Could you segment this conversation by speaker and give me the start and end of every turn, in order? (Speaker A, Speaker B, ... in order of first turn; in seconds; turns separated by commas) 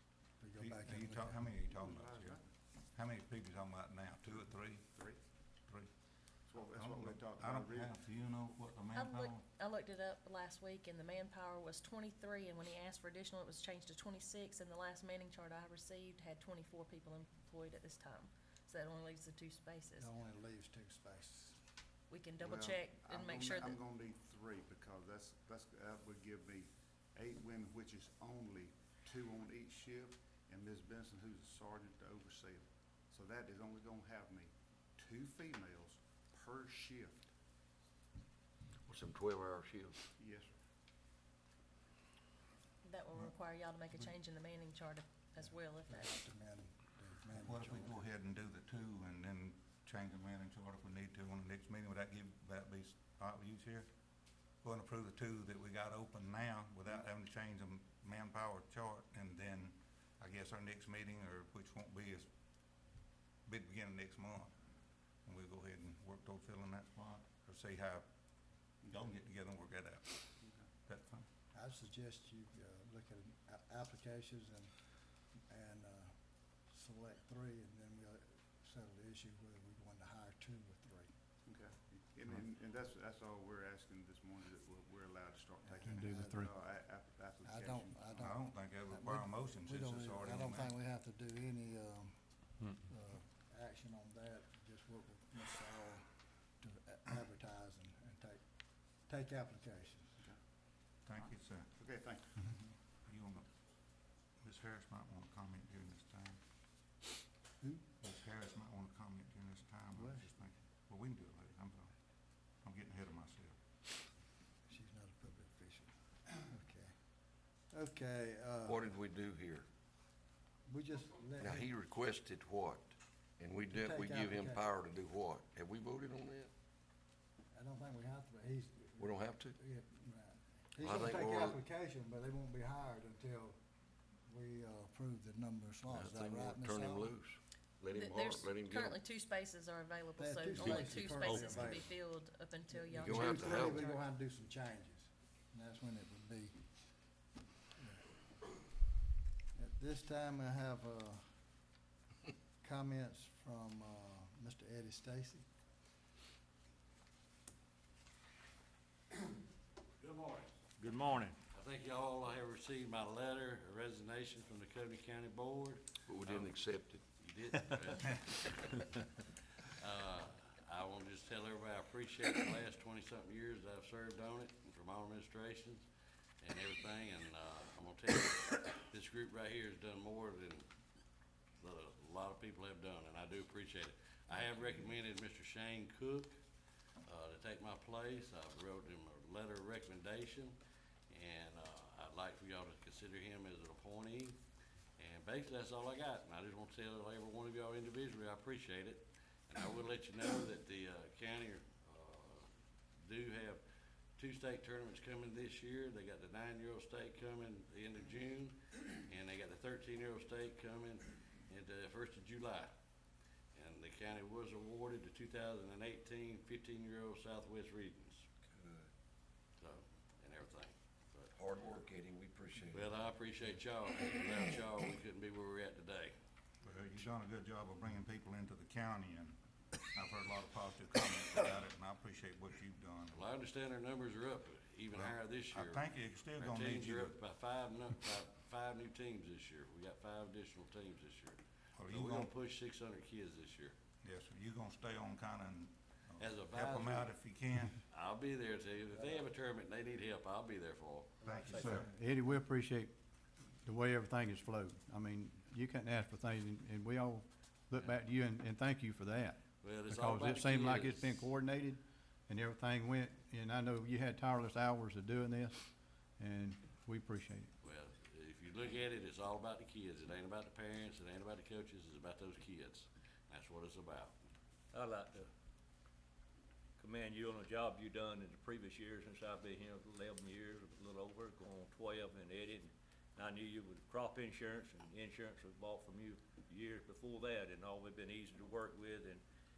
Speaker A: 0.4-1.6, Speaker B: 0.6-4.9, Speaker C: 1.7-2.4, Speaker C: 4.2-5.2, Speaker B: 5.6-9.4, Speaker C: 6.5-8.0, Speaker D: 8.9-20.1, Speaker A: 19.9-21.6, Speaker D: 22.1-23.8, Speaker C: 22.4-37.3, Speaker E: 38.9-40.0, Speaker C: 40.2-40.5, Speaker D: 42.8-46.1, Speaker A: 45.4-48.1, Speaker B: 47.4-62.9, Speaker B: 63.5-64.5, Speaker B: 65.2-71.3, Speaker A: 71.5-74.7, Speaker A: 75.3-81.1, Speaker C: 81.5-88.0, Speaker A: 85.6-86.5, Speaker F: 85.8-86.5, Speaker A: 87.4-100.2, Speaker B: 88.1-90.7, Speaker B: 101.0-101.8, Speaker C: 101.1-102.5, Speaker B: 103.0-106.4, Speaker B: 108.0-111.9, Speaker A: 109.9-110.4, Speaker B: 112.5-113.6, Speaker A: 114.7-116.9, Speaker A: 117.7-118.8, Speaker E: 118.6-119.7, Speaker A: 120.7-121.7, Speaker E: 121.4-126.5, Speaker A: 123.6-124.7, Speaker A: 127.5-133.6, Speaker E: 129.0-129.6, Speaker E: 130.8-131.6, Speaker A: 134.3-137.2, Speaker E: 135.9-139.0, Speaker D: 137.9-144.0, Speaker A: 140.1-141.9, Speaker A: 142.7-146.6, Speaker E: 143.0-143.9, Speaker A: 147.8-148.0, Speaker A: 149.6-151.2, Speaker A: 152.6-155.4, Speaker G: 160.0-160.5, Speaker H: 160.8-161.3, Speaker G: 161.5-168.7, Speaker E: 166.1-167.0, Speaker G: 169.7-175.8, Speaker G: 176.4-180.7, Speaker G: 181.6-186.3, Speaker G: 187.1-190.6, Speaker G: 191.1-194.4, Speaker G: 195.0-202.5, Speaker G: 203.0-203.6, Speaker G: 204.2-212.7, Speaker G: 213.5-218.2, Speaker E: 218.5-218.9, Speaker G: 219.6-221.3, Speaker E: 221.3-223.0, Speaker G: 222.7-226.1, Speaker B: 226.6-229.4, Speaker B: 229.9-233.2, Speaker G: 233.1-243.7, Speaker B: 234.9-237.2, Speaker B: 241.8-242.3, Speaker B: 244.0-247.8, Speaker G: 246.2-247.1, Speaker G: 247.9-251.6, Speaker B: 251.2-251.9, Speaker F: 251.5-252.9, Speaker F: 253.6-267.5, Speaker G: 259.6-261.2, Speaker G: 267.6-274.1, Speaker H: 274.7-275.3, Speaker H: 276.8-289.2